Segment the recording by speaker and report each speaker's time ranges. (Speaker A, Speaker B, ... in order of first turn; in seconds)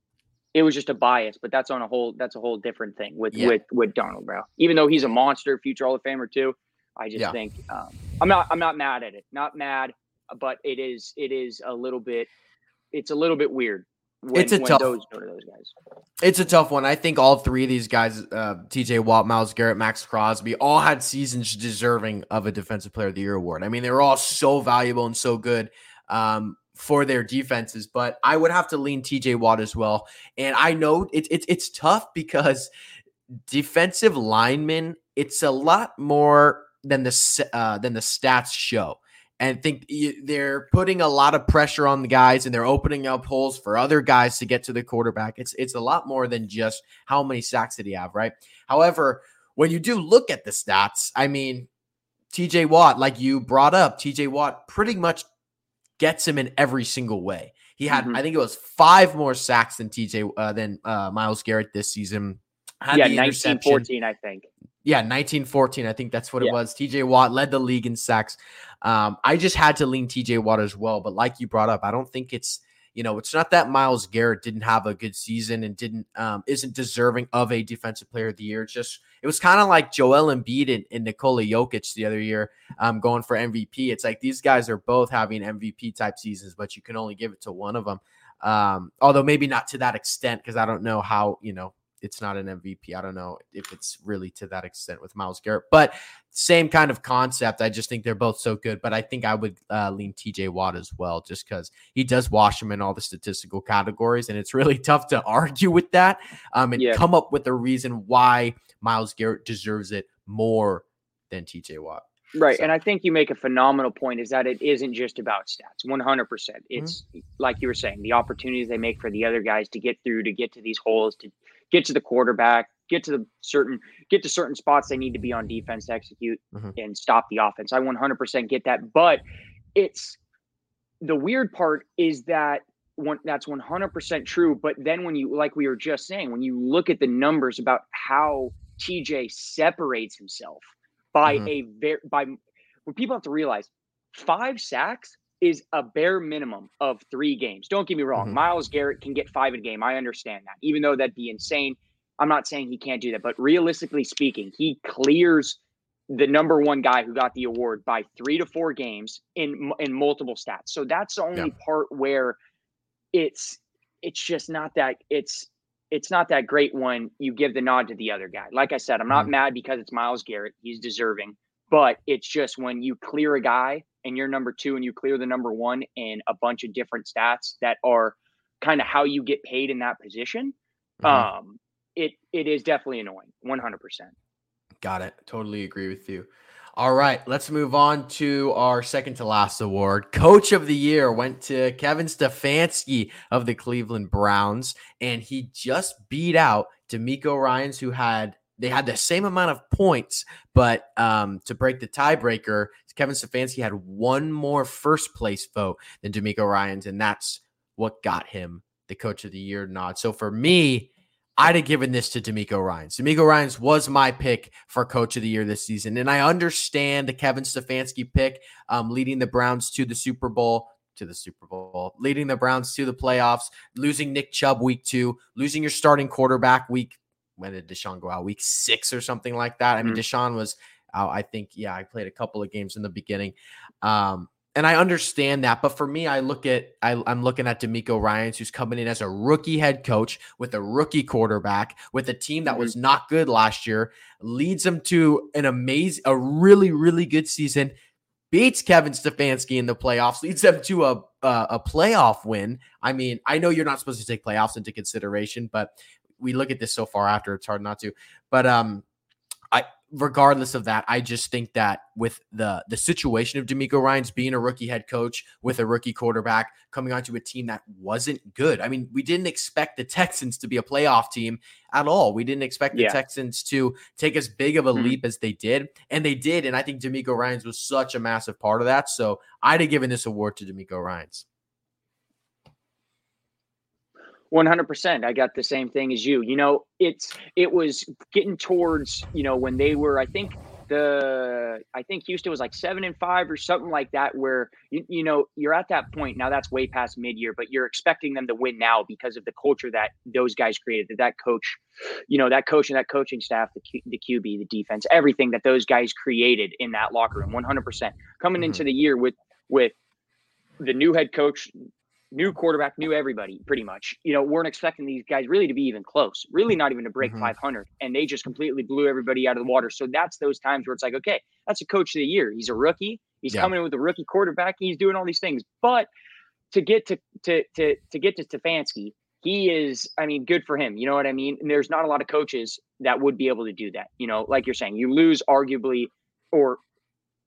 Speaker A: 0.5-12.3, 12.9-15.7, 57.9-58.2, 62.9-64.5, 106.8-107.0, 112.3-129.2, 129.7-130.2, 131.0-142.3, 142.9-155.6, 156.1-162.4, 163.1-184.1, 242.5-242.7, 284.3-309.7, 310.6-311.5, 312.1-325.9, 326.5-336.6
Speaker B: 14.3-14.9, 16.2-32.7, 33.5-51.7, 52.3-55.2, 56.0-63.9, 64.8-112.7, 141.3-141.5, 181.0-181.3, 184.8-247.7, 248.3-258.8, 259.5-281.2, 308.4-308.6, 317.0-317.3